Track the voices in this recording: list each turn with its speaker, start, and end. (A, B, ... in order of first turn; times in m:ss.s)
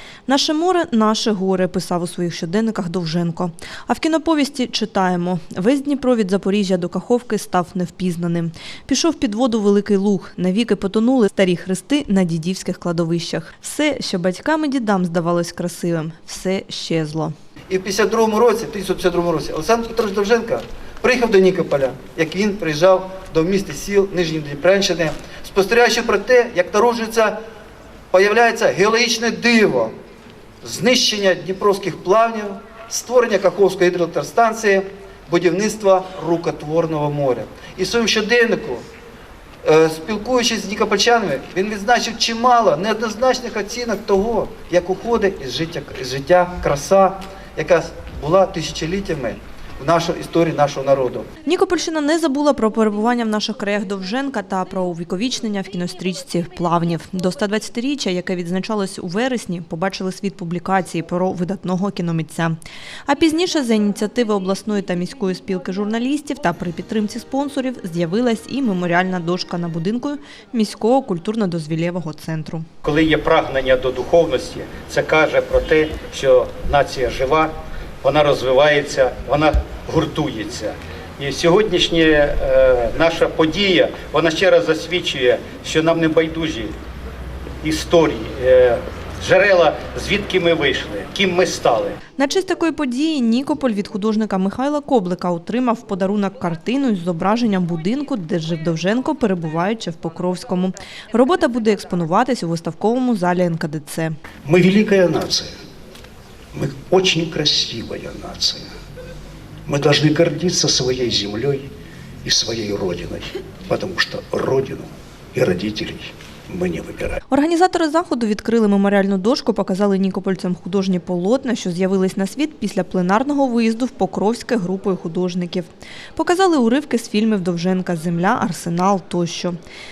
0:00.3-0:17.3 A
0:17.7-0:27.4 B
0:28.1-0:29.9 B
0:30.6-0:38.8 B
0:39.6-0:51.3 B
0:51.4-1:12.7 A
1:12.8-1:17.5 C
1:18.0-1:26.7 C
1:27.6-1:32.0 C
1:32.2-1:44.2 A
1:44.4-1:45.5 D
1:46.5-1:48.6 D
1:49.7-1:51.7 D
1:52.2-1:57.2 D
1:57.3-2:09.6 A